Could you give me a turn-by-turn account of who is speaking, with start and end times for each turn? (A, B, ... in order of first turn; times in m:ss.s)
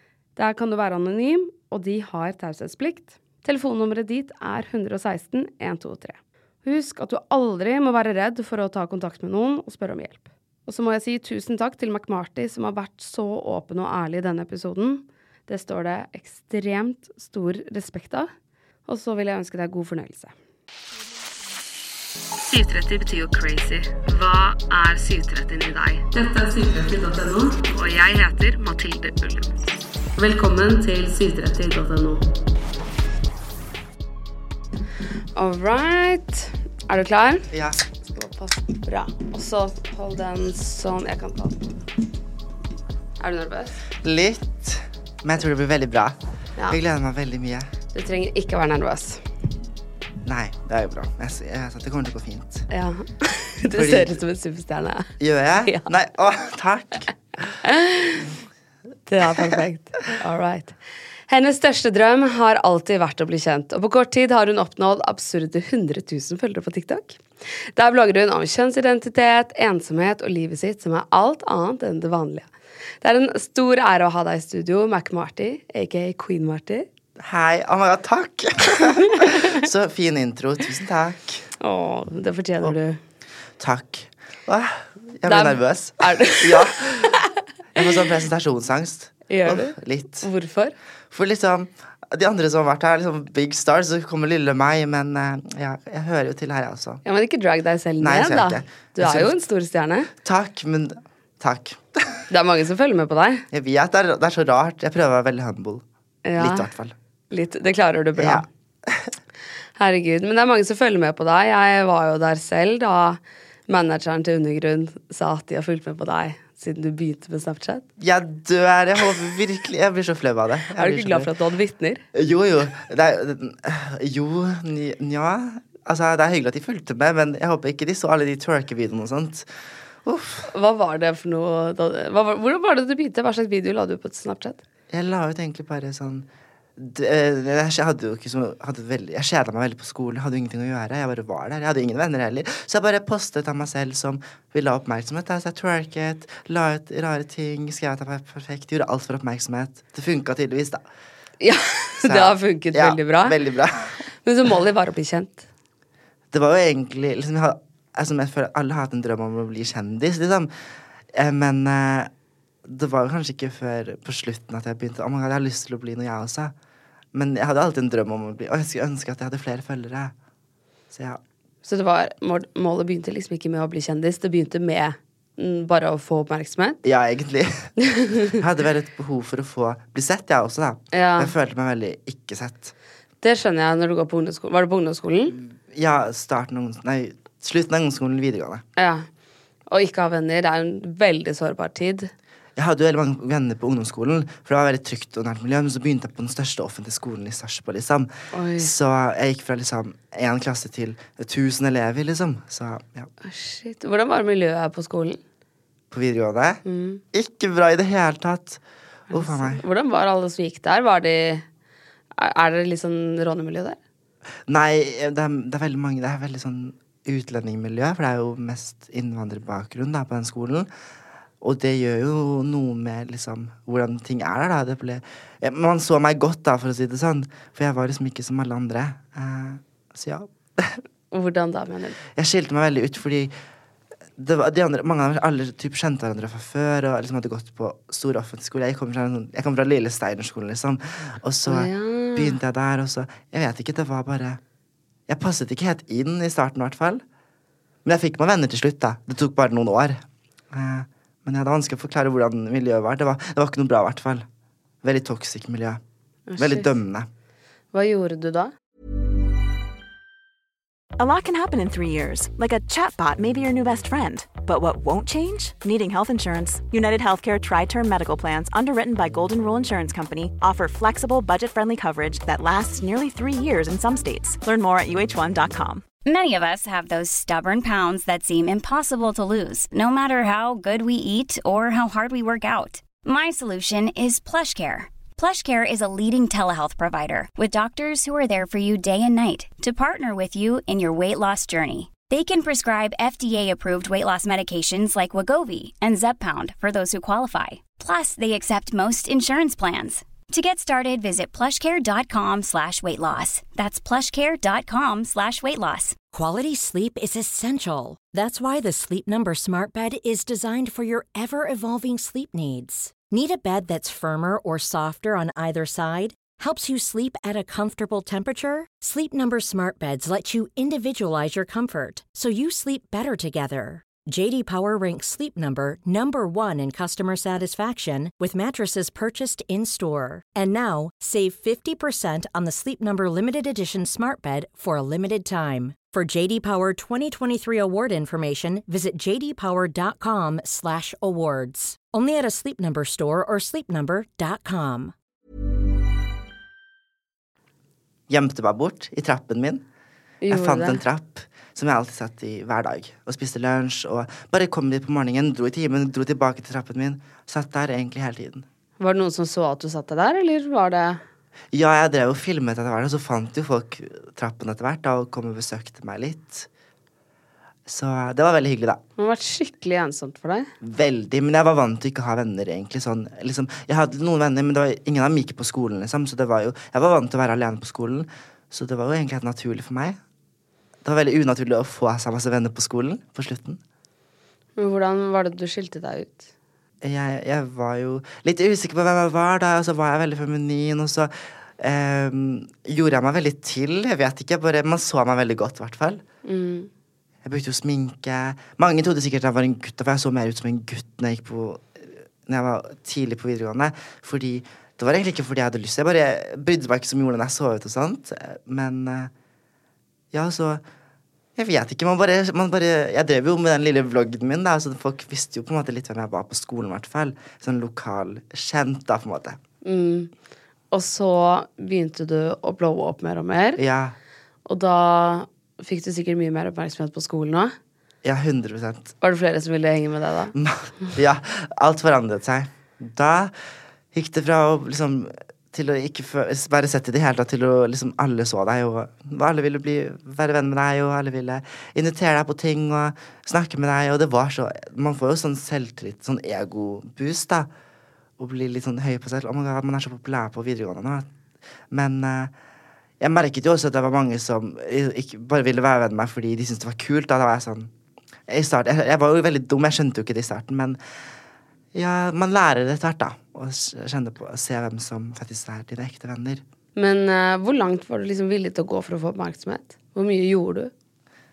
0:00.4-0:18.3 A
0:18.9-0:20.3 A
0:22.4-0:29.5 A
0:30.2-0:32.2 A
0:35.3-0:37.5 A
0:37.5-0:37.8 B
0:38.0-0:41.7 A
0:43.2-0:43.8 A
0:44.0-0:47.7 B
0:47.9-0:49.2 A
0:50.2-0:52.7 B
0:52.7-0:55.1 A
0:53.7-0:54.2 B
0:55.2-0:57.1 B
0:57.6-0:58.4 A
0:59.1-1:00.8 A
1:01.3-1:12.5 A
1:13.0-1:16.9 A
1:17.2-1:21.4 B
1:21.6-1:23.0 A
1:23.6-1:27.1 B
1:25.2-1:27.4 A
1:27.7-1:30.3 B
1:29.3-1:30.8 A
1:31.1-1:37.0 B
1:37.0-1:40.1 A
1:38.0-1:39.4 B
1:40.2-1:42.2 B
1:42.3-1:43.4 A
1:43.5-1:45.8 B
1:46.2-1:46.7 A
1:46.4-1:47.0 B
1:47.3-1:48.4 A
1:48.2-1:49.1 B
1:49.8-1:57.8 A
1:58.0-2:01.3 B
2:00.8-2:02.0 A
2:02.1-2:10.5 B
2:10.5-2:14.6 A
2:14.9-2:30.8 B
2:31.4-2:33.4 A
2:32.0-2:34.0 B
2:34.2-2:35.5 A
2:36.3-2:40.5 B
2:41.1-2:42.1 B
2:42.6-2:46.5 B
2:47.1-2:50.1 B
2:50.9-2:51.2 B
2:51.6-2:56.8 A
2:56.8-2:57.7 B
2:57.8-2:58.4 A
2:58.3-3:02.7 B
3:00.9-3:01.3 A
3:03.2-3:05.4 A
3:05.3-3:08.6 B
3:08.8-3:09.1 A
3:09.7-3:12.1 A
3:12.6-3:23.1 B
3:18.3-3:18.7 A
3:23.2-3:25.2 A
3:25.9-3:26.6 B
3:26.6-3:27.0 A
3:27.1-3:29.6 B
3:29.1-3:31.4 A
3:32.2-3:33.8 A
3:34.5-3:40.7 B
3:41.4-3:50.8 B
3:51.1-3:52.0 A
3:52.1-3:53.3 B
3:54.2-4:04.4 B
4:01.4-4:02.4 A
4:05.1-4:07.0 B
4:07.8-4:14.2 B
4:14.8-4:15.8 B
4:16.3-4:16.7 A
4:16.4-4:17.1 B
4:17.7-4:18.5 A
4:21.0-4:35.8 C
4:36.0-5:06.0 D
5:06.1-5:44.9 E
5:48.1-5:49.6 B
5:50.2-5:50.8 A
5:50.3-5:58.4 B
5:58.8-6:01.0 A
6:01.5-6:06.5 B
6:07.6-6:08.8 B
6:09.0-6:10.5 A
6:10.6-6:20.0 B
6:20.8-6:23.6 B
6:24.6-6:26.2 A
6:26.8-6:36.0 B
6:36.2-6:36.7 A
6:37.2-6:49.1 B
6:50.1-6:50.6 B
6:51.4-6:59.4 B
6:59.6-7:00.1 A
7:00.7-7:03.6 A
7:03.6-7:04.0 B
7:04.4-7:07.5 A
7:08.0-7:08.9 B
7:09.0-7:10.3 A
7:10.3-7:13.4 B
7:13.9-7:27.5 B
7:28.2-7:31.1 B
7:31.7-7:32.3 B
7:33.0-7:37.7 B
7:38.3-7:40.8 B
7:41.7-7:46.4 B
7:46.8-7:50.7 A